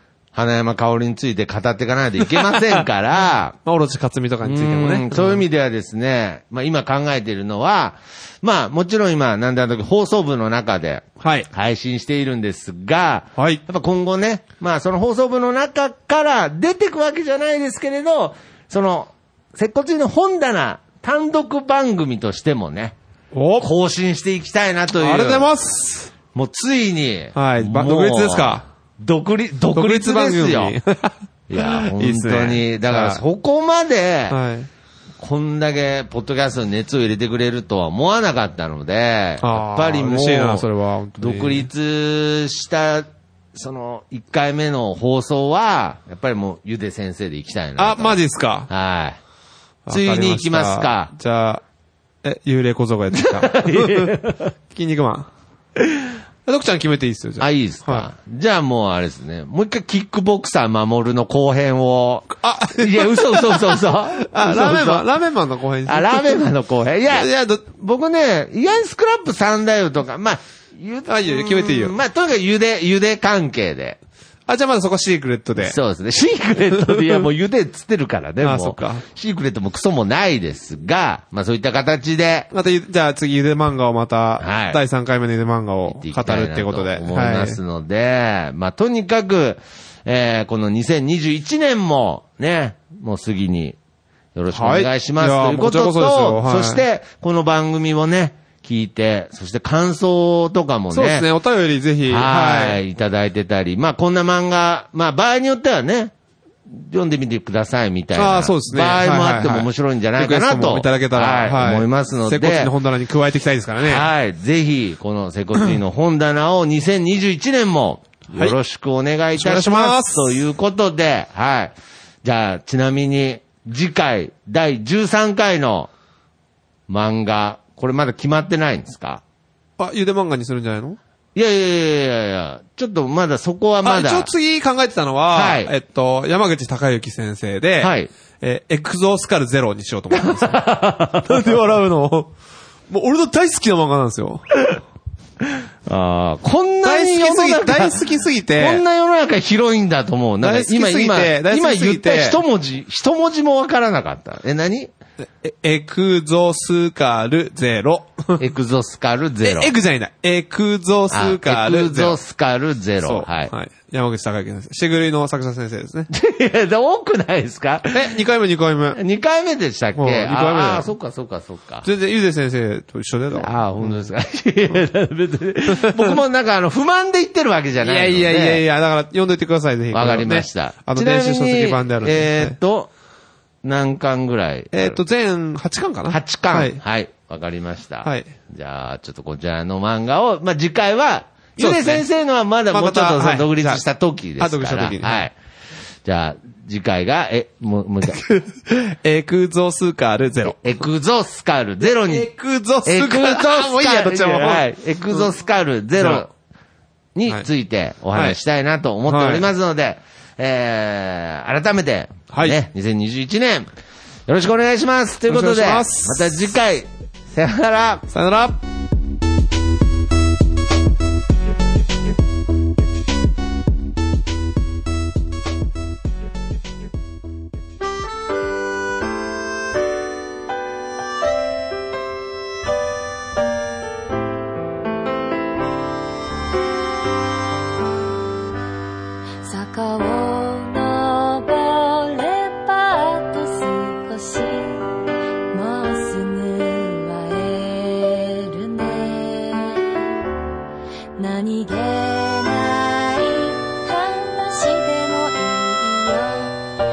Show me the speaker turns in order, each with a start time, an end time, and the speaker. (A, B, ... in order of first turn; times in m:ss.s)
0:00.3-0:03.6 A
0:02.4-0:02.8 B
0:03.6-0:05.4 B
0:04.4-0:23.0 A
0:11.2-0:11.5 B
0:13.4-0:13.6 B
0:23.3-0:23.7 B
0:23.6-0:25.5 A
0:25.0-0:26.1 B
0:26.3-0:30.8 A
0:27.3-0:28.6 B
0:29.7-0:33.2 B
0:31.5-0:34.4 A
0:34.3-0:34.7 B
0:35.2-0:40.6 A
0:39.4-0:41.7 B
0:41.2-0:49.2 A
0:47.8-0:48.7 B
0:49.8-0:51.6 B
0:49.9-0:51.1 A
0:52.2-0:54.1 B
0:53.1-0:54.5 A
0:54.7-0:58.1 B
0:57.4-1:05.1 A
1:02.4-1:06.4 B
1:05.8-1:14.0 A
1:07.1-1:07.6 B
1:11.1-1:12.0 B
1:14.5-1:15.8 B
1:15.5-1:22.5 A
1:16.9-1:17.2 B
1:18.4-1:19.0 B
1:22.5-1:27.6 B
1:24.4-1:24.8 A
1:25.9-1:33.8 A
1:34.3-1:41.3 A
1:34.5-1:36.8 B
1:40.9-1:42.8 B
1:42.1-1:46.1 A
1:46.7-1:52.7 A
1:48.1-1:54.0 B
1:53.8-2:05.9 A
1:59.3-2:00.3 B
2:06.9-2:09.2 A
2:09.8-2:11.0 B
2:11.3-2:14.3 A
2:13.8-2:20.6 B
2:15.3-2:15.7 A
2:17.8-2:18.1 A
2:20.1-2:21.6 A
2:21.2-2:22.3 B
2:22.9-2:24.4 B
2:25.8-2:28.0 A
2:26.8-2:28.8 B
2:28.6-2:34.9 A
2:30.4-2:32.4 B
2:35.4-2:38.4 B
2:38.4-2:39.7 A
2:39.4-2:42.2 B
2:41.1-2:43.5 A
2:43.0-2:46.1 B
2:46.1-2:48.2 A
2:47.9-2:49.0 B
2:48.9-2:51.9 A
2:50.0-2:50.9 B
2:51.8-2:54.0 B
2:53.3-2:58.6 A
2:55.7-2:56.2 B
2:57.8-3:02.6 B
2:59.9-3:02.9 A
3:03.6-3:05.0 A
3:04.7-3:06.8 B
3:06.1-3:15.3 A
3:08.0-3:08.3 B
3:11.6-3:12.0 B
3:12.7-3:13.8 B
3:14.4-3:15.3 B
3:16.0-3:18.2 A
3:18.2-3:20.6 B
3:20.4-3:22.3 A
3:22.0-3:25.2 B
3:22.8-3:26.3 A
3:26.0-3:26.2 B
3:27.1-3:33.7 A
3:29.1-3:29.5 B
3:32.3-3:32.6 B
3:34.3-3:38.0 A
3:35.3-3:36.5 B
3:38.1-3:38.6 B
3:59.4-4:04.9 C
4:05.5-4:10.2 C
4:11.2-4:16.6 C